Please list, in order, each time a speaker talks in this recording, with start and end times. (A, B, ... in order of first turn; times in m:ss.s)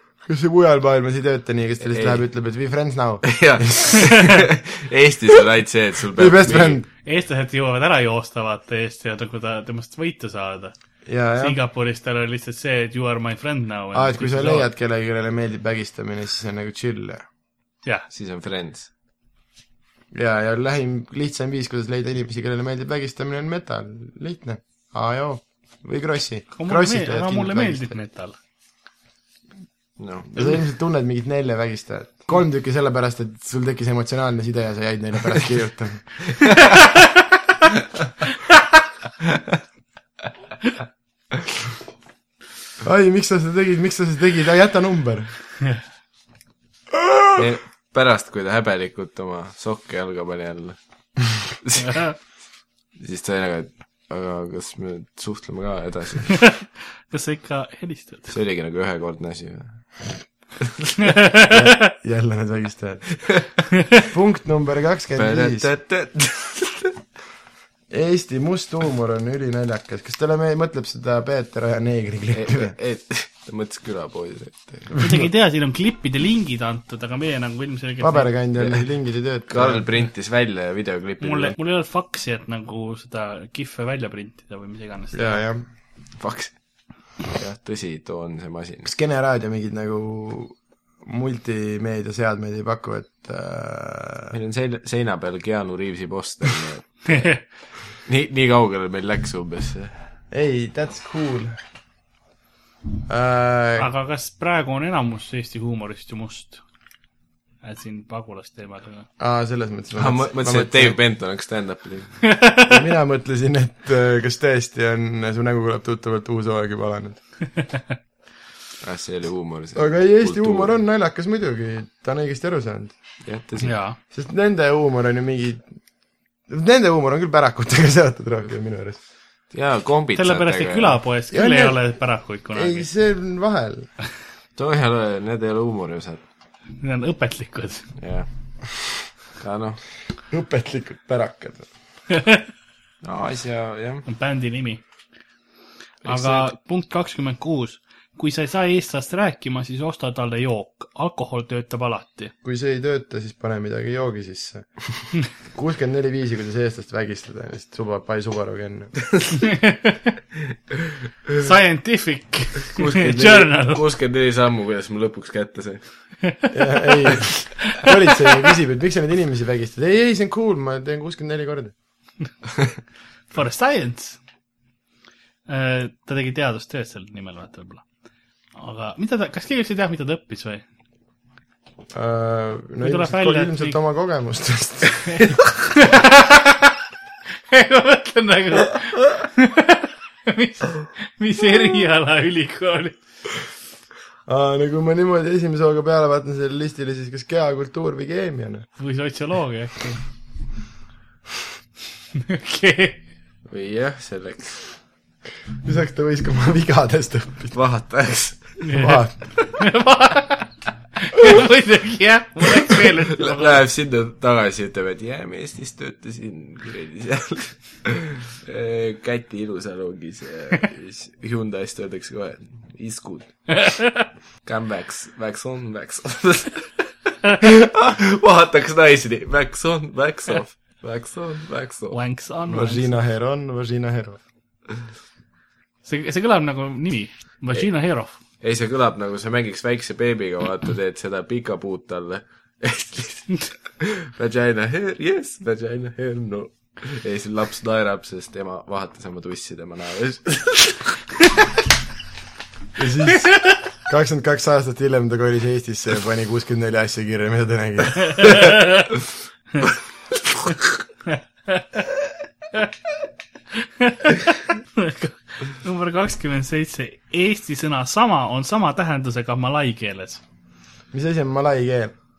0:00.3-0:04.4 A
0:01.8-0:02.2 B
0:03.2-0:06.8 B
0:06.2-0:06.9 A
0:07.0-0:10.8 C
0:11.1-0:11.6 A
0:11.4-0:14.7 C
0:13.9-0:17.2 A
0:18.1-0:18.9 B
0:20.1-0:28.0 A
0:26.5-0:28.4 C
0:30.0-0:30.4 B
0:30.3-0:36.2 A
0:42.8-0:45.3 A
0:47.0-0:47.3 A
0:47.4-0:50.8 B
0:51.6-0:51.9 B
0:51.8-0:52.2 C
0:53.0-0:56.4 B
0:57.1-0:58.3 C
0:58.3-0:59.8 B
1:01.0-1:01.9 C
1:01.4-1:03.2 A
1:04.0-1:05.7 A
1:05.2-1:06.9 B
1:07.9-1:12.8 A
1:12.3-1:14.9 B
1:14.9-1:15.2 A
1:15.0-1:18.3 C
1:18.0-1:19.8 A
1:18.6-1:18.8 B
1:19.5-1:21.6 B
1:21.2-1:25.4 C
1:25.1-1:25.6 A
1:26.2-1:26.6 B
1:27.3-1:28.9 B
1:28.8-1:34.4 A
1:34.3-1:37.2 B
1:37.1-1:37.4 C
1:38.0-1:40.0 B
1:40.3-1:41.6 A
1:43.1-1:43.9 A
1:43.8-1:46.6 C
1:47.6-1:49.1 C
1:49.2-1:51.0 A
1:50.0-1:52.3 B
1:52.3-1:52.7 C
1:52.7-1:57.2 A
1:58.8-2:00.7 B
1:59.7-2:03.0 A
2:03.2-2:03.8 B
2:03.6-2:04.0 C
2:04.1-2:05.7 A
2:06.5-2:09.0 A
2:09.5-2:11.0 B
2:10.2-2:12.9 C
2:11.3-2:11.8 A
2:12.5-2:13.9 A
2:14.6-2:16.2 B
2:16.8-2:17.9 C
2:18.0-2:18.3 B
2:19.4-2:19.8 B
2:20.3-2:21.7 A
2:22.1-2:22.5 C
2:23.0-2:24.0 B
2:24.1-2:24.8 C
2:26.0-2:26.5 B
2:26.1-2:32.3 C
2:32.4-2:34.7 A
2:35.3-2:39.0 A
2:39.4-2:40.2 C
2:41.4-2:43.8 C
2:42.8-2:45.8 B
2:46.2-2:46.5 C
2:46.5-2:51.7 A
2:53.3-2:54.2 C
2:55.5-2:57.8 C
2:58.6-3:00.6 C
3:01.9-3:05.4 A
3:02.8-3:03.8 C
3:05.8-3:06.5 C
3:07.5-3:13.0 C
3:14.3-3:18.7 A
3:18.8-3:20.0 C
3:22.2-3:23.0 C
3:23.5-3:24.8 B
3:25.6-3:27.6 A
3:27.5-3:28.6 B
3:28.6-3:29.1 C
3:28.8-3:29.2 A
3:29.6-3:33.6 C
3:33.2-3:43.7 B
3:43.6-3:44.0 C
3:44.4-3:52.0 B
3:51.9-3:52.9 C
3:52.5-3:54.2 A
3:55.8-3:58.2 C
3:58.4-4:11.0 B
4:12.8-4:18.5 A
4:18.2-4:18.5 C
4:21.5-4:21.8 C
4:23.6-4:30.2 C
4:30.9-4:31.9 A